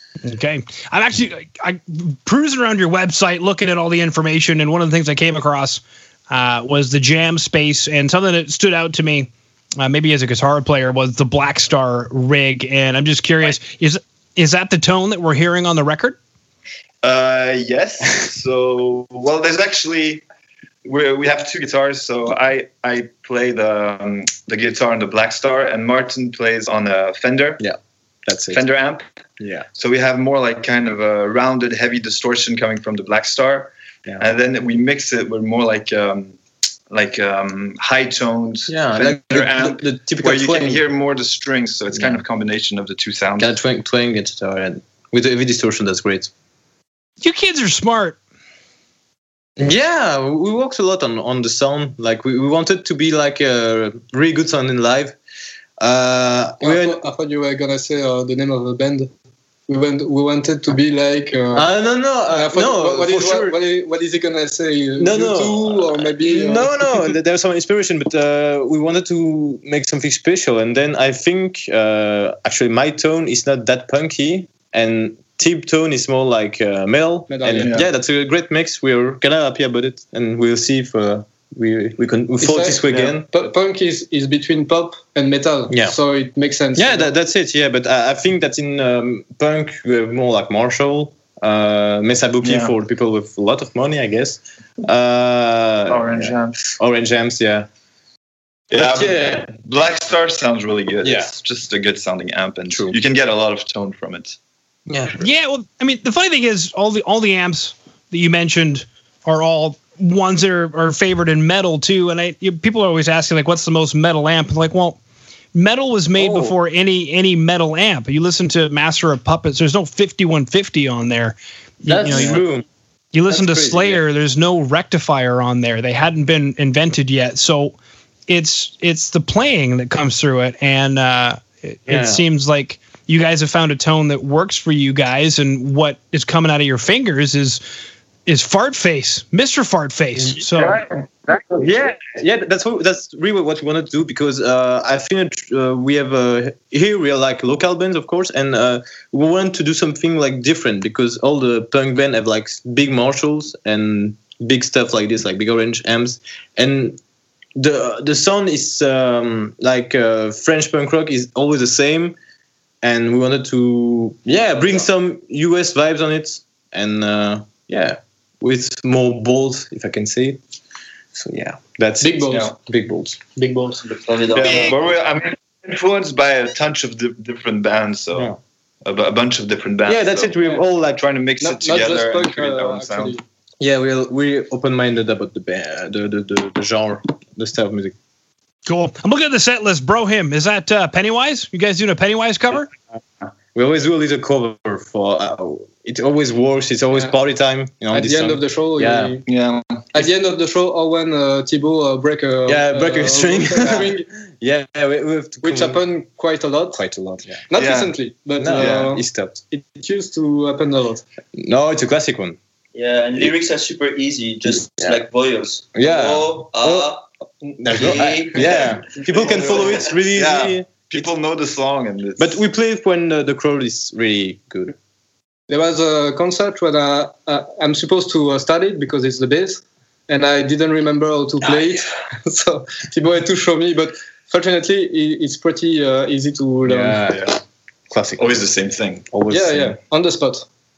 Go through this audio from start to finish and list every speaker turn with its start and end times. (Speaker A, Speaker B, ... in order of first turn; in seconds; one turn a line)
Speaker A: 0.2-16.2
Speaker B: 17.0-20.2
Speaker B: 20.9-27.6
Speaker C: 27.6-28.6
Speaker B: 28.5-29.1
Speaker C: 29.4-29.7
Speaker B: 29.8-36.4
Speaker B: 36.9-43.5
Speaker C: 38.7-40.8
Speaker C: 41.9-42.2
Speaker C: 43.4-46.3
Speaker A: 47.2-48.2
Speaker C: 49.6-55.2
Speaker C: 55.8-57.0
Speaker D: 56.6-59.1
Speaker D: 59.7-61.7
Speaker C: 61.5-63.6
Speaker D: 62.3-66.8
Speaker C: 65.0-83.3
Speaker D: 77.3-77.8
Speaker B: 77.6-77.8
Speaker D: 82.4-87.1
Speaker C: 85.7-86.0
Speaker C: 86.8-97.7
Speaker B: 92.4-92.7
Speaker B: 95.9-96.7
Speaker B: 98.7-104.4
Speaker C: 98.7-99.5
Speaker C: 101.0-101.3
Speaker C: 102.7-103.0
Speaker C: 104.9-105.2
Speaker A: 105.2-115.0
Speaker A: 115.5-122.4
Speaker C: 116.2-116.5
Speaker C: 121.9-122.7
Speaker A: 123.1-127.8
Speaker C: 123.3-124.0
Speaker A: 128.3-137.6
Speaker C: 131.9-132.2
Speaker A: 138.3-140.8
Speaker C: 140.2-140.7
Speaker C: 141.4-157.0
Speaker C: 157.6-162.2
Speaker C: 162.8-170.4
Speaker C: 171.1-173.2
Speaker D: 172.0-172.5
Speaker D: 173.4-173.8
Speaker E: 173.8-174.8
Speaker B: 174.3-183.2
Speaker C: 178.1-178.4
Speaker C: 179.8-181.0
Speaker D: 181.4-183.2
Speaker C: 183.6-187.9
Speaker A: 188.7-192.7
Speaker C: 193.6-199.2
Speaker D: 197.9-199.2
Speaker B: 199.3-199.8
Speaker D: 199.9-204.1
Speaker C: 202.5-205.8
Speaker D: 205.4-206.8
Speaker C: 206.8-207.4
Speaker D: 207.5-211.0
Speaker B: 207.5-207.9
Speaker C: 208.4-209.4
Speaker C: 211.4-212.4
Speaker E: 212.8-217.0
Speaker C: 214.7-215.0
Speaker C: 215.8-216.9
Speaker C: 217.6-221.1
Speaker E: 217.7-219.9
Speaker B: 218.4-222.4
Speaker C: 222.2-224.8
Speaker D: 225.5-237.0
Speaker C: 236.6-237.3
Speaker B: 237.1-237.4
Speaker C: 237.9-238.4
Speaker B: 238.2-239.1
Speaker C: 239.1-239.8
Speaker D: 239.3-240.4